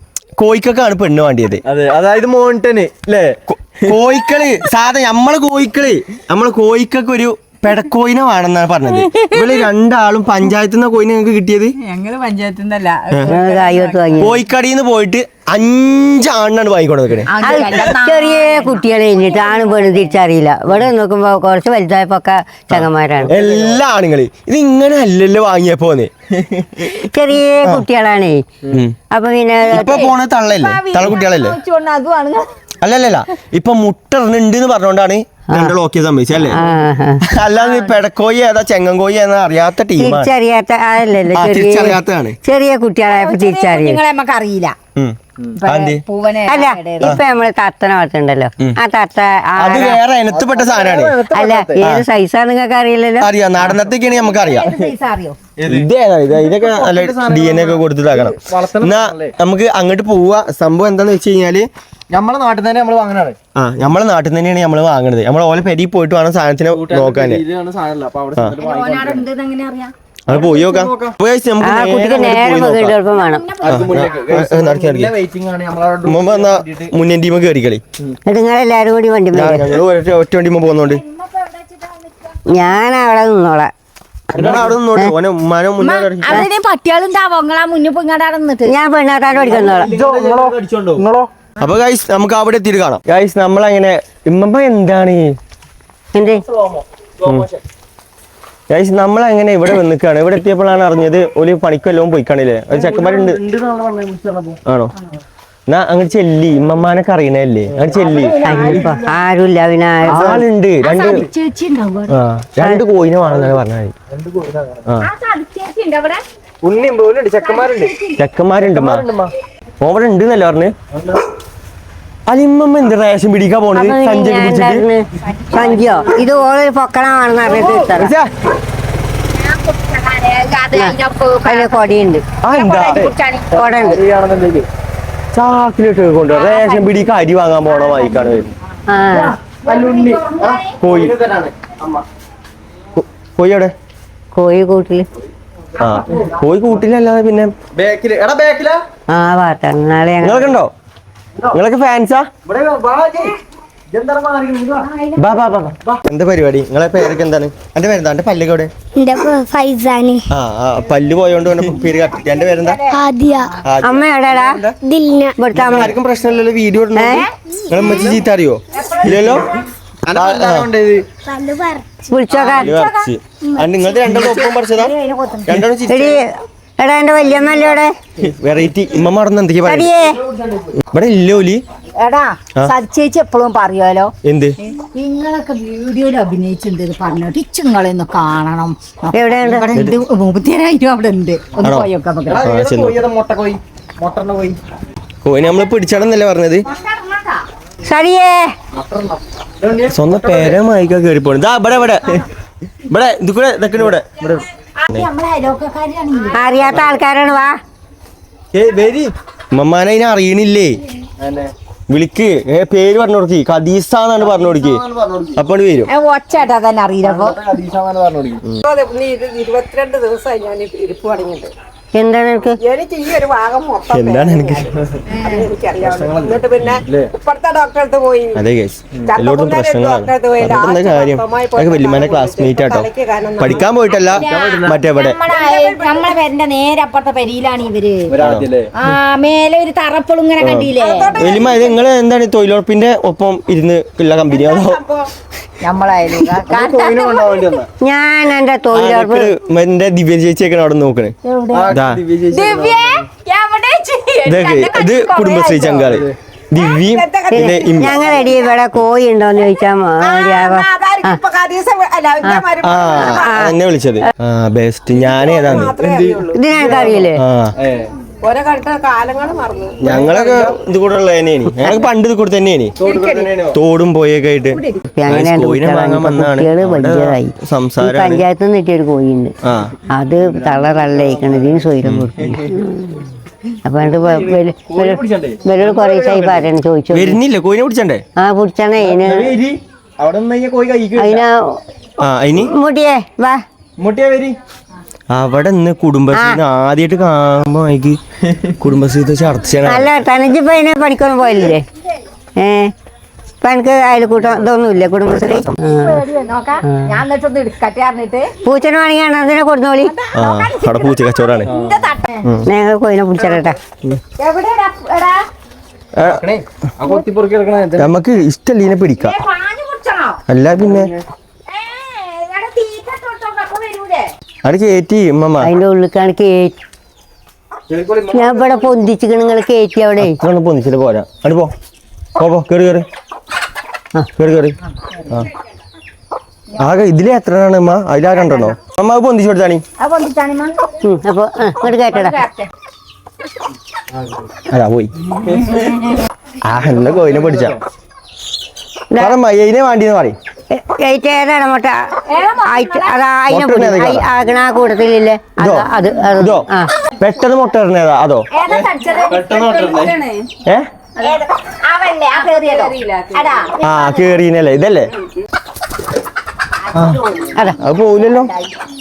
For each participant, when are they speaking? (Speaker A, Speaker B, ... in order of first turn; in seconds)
Speaker A: 0.4-1.6, 3.5-11.8, 13.1-13.4, 14.2-17.3, 22.7-27.1, 29.7-31.6, 32.8-36.6, 37.2-40.3, 41.3-42.4, 45.0-46.0, 49.6-51.2, 51.8-52.0, 53.2-54.8, 55.6-61.7, 63.5-67.4, 70.3-73.0, 73.7-75.1, 76.1-77.8, 79.3-81.0, 84.4-86.5, 89.5-91.0, 91.6-95.3, 98.7-103.4, 104.7-104.9, 105.7-108.4, 110.1-111.3, 112.1-113.9, 118.2-119.1, 119.8-120.8, 122.3-124.8, 128.0-128.3, 132.4-133.1, 135.3-138.5, 140.8-141.2, 143.0-143.7, 145.8-147.5, 150.2-150.7, 151.5-152.3, 155.2-158.7, 160.3-162.8, 163.7-164.0, 165.6-169.5, 170.1-170.7, 172.3-174.9, 175.5-176.2, 178.2-179.9, 180.9-181.6, 184.2-184.6, 191.6-191.9, 192.4-193.0, 195.2-196.7, 199.9-202.2, 202.9-204.1, 209.5-210.8, 211.9-214.8, 215.4-215.9, 223.9-224.7, 228.3-232.9, 233.4-235.2, 238.2-238.5, 240.4-244.8, 248.7-251.1, 251.7-252.0, 254.3-258.2, 262.6-265.7, 267.1-267.5, 269.8-272.8, 273.5-278.2, 279.4-279.8, 281.8-282.1, 286.9-288.0, 292.0-292.5, 295.1-298.0, 298.6-299.9, 310.1-311.5, 316.0-316.2, 317.8-319.1, 320.3-320.9, 324.4-325.5, 330.0-331.5, 332.2-332.9, 334.2-334.6, 336.6-339.6, 344.5-344.9, 346.4-347.6, 349.0-350.2, 353.3-354.1, 355.4-358.3, 363.6-364.9, 366.7-367.0, 367.6-368.3
Speaker B: 1.6-4.0, 23.2-23.8, 50.3-51.9, 55.6-59.4, 62.1-63.4, 66.7-69.3, 70.3-71.2, 73.6-76.9, 84.3-84.7, 89.4-91.3, 96.5-97.6, 102.7-104.6, 107.7-109.1, 113.3-114.9, 116.6-117.9, 118.6-119.3, 120.9-121.2, 125.5-126.2, 132.9-134.7, 139.2-142.0, 147.8-148.8, 152.4-153.3, 153.9-154.9, 164.4-164.7, 167.8-168.2, 169.0-169.5, 170.1-171.1, 192.3-194.6, 198.7-200.6, 203.8-204.4, 206.7-207.0, 208.5-209.1, 211.2-211.5, 214.2-215.4, 217.0-218.4, 225.8-227.1, 233.4-234.8, 238.1-238.7, 246.5-247.7, 251.5-253.1, 255.5-256.1, 265.5-267.0, 267.6-267.9, 272.8-273.6, 280.5-281.4, 282.2-282.6, 283.8-286.5, 288.8-291.2, 293.8-294.4, 311.5-311.9, 316.1-317.9, 320.6-320.9, 327.7-328.7, 343.9-344.3, 345.3-345.7, 346.6-347.6, 358.5-360.0
Speaker C: 9.1-9.6, 11.8-13.2, 17.3-20.1, 29.9-32.5, 37.6-38.0, 43.1-44.8, 45.5-47.2, 53.6-55.4, 68.6-69.9, 73.1-74.4, 81.1-82.4, 85.8-88.8, 108.4-108.9, 110.8-112.2, 115.0-116.2, 117.4-118.2, 127.5-127.9, 129.3-133.6, 136.3-137.0, 139.6-140.8, 154.9-155.2, 162.2-163.5, 168.8-169.3, 172.5-173.1, 174.0-175.7, 182.0-184.1, 184.7-192.4, 196.7-197.4, 204.8-206.8, 215.9-217.4, 225.1-225.4, 234.0-238.1, 238.7-241.2, 245.6-247.6, 251.2-251.7, 252.3-255.7, 256.6-257.1, 261.5-261.9, 305.6-308.3, 309.8-312.2, 314.2-315.2, 319.0-320.2, 321.5-324.1, 334.8-335.1, 339.8-340.8, 341.6-342.5, 345.3-345.8, 352.1-353.0, 358.3-360.2, 361.0-364.0, 366.7-367.6, 368.1-368.4
Speaker D: 13.3-13.9, 218.7-221.5, 222.6-224.7, 225.2-228.4, 229.1-233.7, 235.3-236.1, 240.8-241.7, 244.4-245.0, 260.0-263.3, 265.1-267.1, 268.2-270.5, 272.8-273.4, 362.2-363.3
Speaker E: 13.3-14.4, 17.4-23.4, 27.0-28.4, 29.1-30.1, 36.4-37.2, 40.0-44.0, 46.5-50.0, 51.3-53.3, 71.6-73.5, 78.3-79.8, 82.5-83.7, 88.7-89.9, 96.2-96.4, 108.4-110.4, 123.7-128.1, 130.7-132.2, 133.6-134.0, 138.9-139.3, 144.3-145.1, 149.1-150.5, 163.8-164.6, 165.4-165.9, 167.0-167.3, 172.1-172.7, 175.9-177.9, 179.7-180.2, 189.1-189.7, 197.8-198.5, 206.3-207.6, 221.9-222.6, 247.8-249.3, 257.3-261.2, 262.2-264.1, 266.3-267.2, 274.9-279.4, 279.9-283.0, 283.7-287.2, 288.2-289.4, 291.0-291.6, 292.3-293.4, 296.1-296.4, 299.6-301.6, 302.4-302.7, 303.4-306.0, 306.6-307.0, 308.4-309.9, 312.5-313.6, 325.4-326.6, 328.1-330.2, 340.8-342.2, 348.9-349.2, 350.5-356.7
Speaker F: 159.0-160.3, 162.9-163.5, 164.8-165.4, 171.2-171.8, 173.5-173.9